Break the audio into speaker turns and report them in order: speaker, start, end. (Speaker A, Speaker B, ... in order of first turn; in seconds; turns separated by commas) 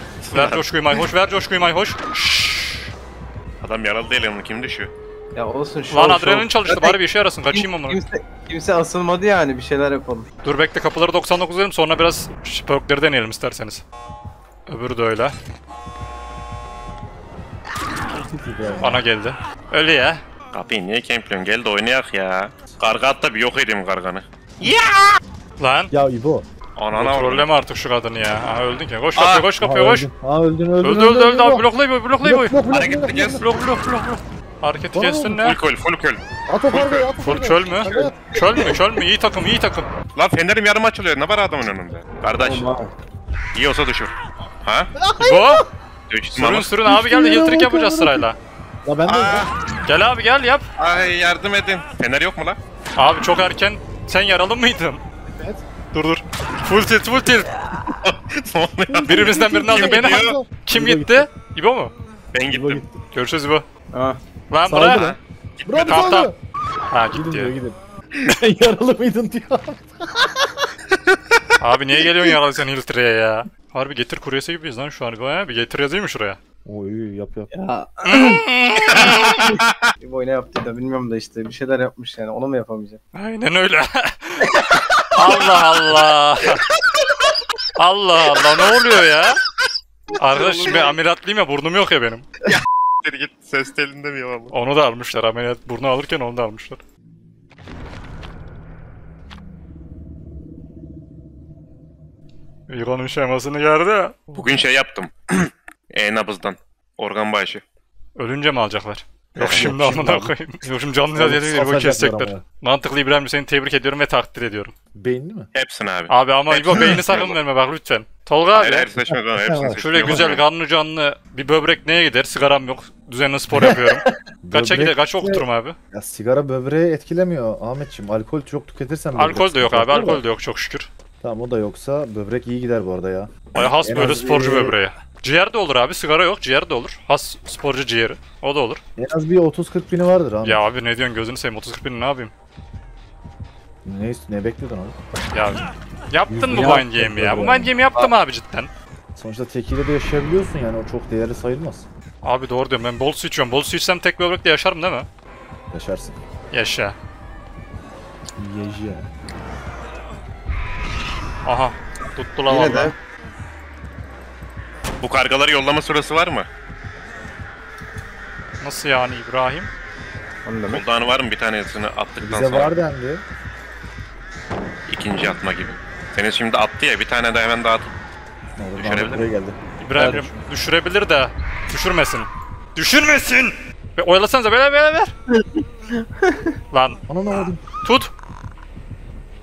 Speaker A: 0.2-1.0, Speaker B: 0.3-2.9, Speaker A: 3.6-4.9, Speaker C: 5.3-7.0, Speaker B: 5.9-8.0, Speaker C: 7.5-10.3, Speaker B: 10.4-13.8, Speaker B: 14.7-15.4, Speaker D: 18.4-19.0, Speaker B: 18.8-20.2, Speaker A: 20.5-25.2, Speaker B: 25.6-25.9, Speaker D: 25.9-26.5, Speaker A: 26.8-27.5, Speaker B: 26.9-30.1, Speaker A: 29.1-29.5, Speaker D: 29.6-31.6, Speaker B: 30.8-32.6, Speaker D: 32.2-33.5, Speaker A: 32.7-33.5, Speaker B: 33.4-35.6, Speaker D: 34.9-35.4, Speaker A: 35.4-37.1, Speaker D: 36.5-38.2, Speaker B: 37.2-39.9, Speaker C: 37.9-38.8, Speaker A: 40.2-42.7, Speaker C: 42.4-42.9, Speaker A: 43.5-44.9, Speaker D: 45.0-45.7, Speaker B: 45.2-45.6, Speaker A: 46.1-46.7, Speaker B: 46.3-48.4, Speaker D: 46.9-48.3, Speaker D: 48.9-49.5, Speaker A: 49.1-49.5, Speaker B: 49.9-50.7, Speaker A: 50.8-52.6, Speaker B: 53.0-55.0, Speaker D: 55.3-55.6, Speaker B: 55.9-57.5, Speaker A: 57.9-60.4, Speaker D: 58.9-61.3, Speaker B: 59.1-61.9, Speaker A: 62.3-62.8, Speaker D: 62.5-62.9, Speaker B: 63.1-63.6, Speaker C: 63.9-64.2, Speaker B: 64.5-65.1, Speaker D: 64.7-66.3, Speaker A: 64.9-66.1, Speaker B: 65.9-66.3, Speaker B: 66.9-67.5, Speaker D: 67.1-70.7, Speaker B: 71.6-76.4, Speaker D: 76.7-77.5, Speaker C: 77.5-78.4, Speaker B: 78.0-79.5, Speaker A: 78.9-79.7, Speaker C: 80.0-83.0, Speaker B: 83.2-86.7, Speaker B: 87.8-89.4, Speaker B: 90.2-92.3, Speaker C: 90.3-90.9, Speaker A: 92.5-94.5, Speaker B: 94.5-96.8, Speaker B: 102.7-104.4, Speaker A: 104.3-107.6, Speaker B: 108.2-114.7, Speaker A: 109.4-109.7, Speaker D: 109.4-110.3, Speaker D: 111.2-112.4, Speaker D: 115.0-115.5, Speaker A: 115.5-117.3, Speaker B: 116.1-118.9, Speaker A: 118.5-120.4, Speaker D: 119.0-120.2, Speaker B: 119.8-125.8, Speaker D: 123.5-123.8, Speaker D: 124.4-125.4, Speaker D: 125.9-130.2, Speaker B: 129.2-130.9, Speaker D: 131.2-134.8, Speaker B: 133.5-138.8, Speaker D: 139.0-140.6, Speaker B: 140.4-142.3, Speaker D: 143.8-144.9, Speaker B: 145.3-148.7, Speaker D: 146.3-147.7, Speaker C: 146.5-146.8, Speaker D: 149.2-151.9, Speaker B: 152.2-155.1, Speaker D: 155.7-156.2, Speaker B: 156.5-157.0, Speaker D: 158.4-159.1, Speaker B: 161.4-162.9, Speaker C: 162.5-162.9, Speaker A: 165.0-166.5, Speaker B: 168.6-169.7, Speaker C: 170.4-170.8, Speaker A: 170.7-172.7, Speaker D: 172.2-173.2, Speaker A: 174.9-177.9, Speaker D: 178.6-180.4, Speaker A: 178.8-179.2, Speaker B: 179.8-185.1, Speaker C: 185.3-186.6, Speaker B: 186.7-187.0, Speaker D: 187.1-187.6, Speaker B: 187.8-188.1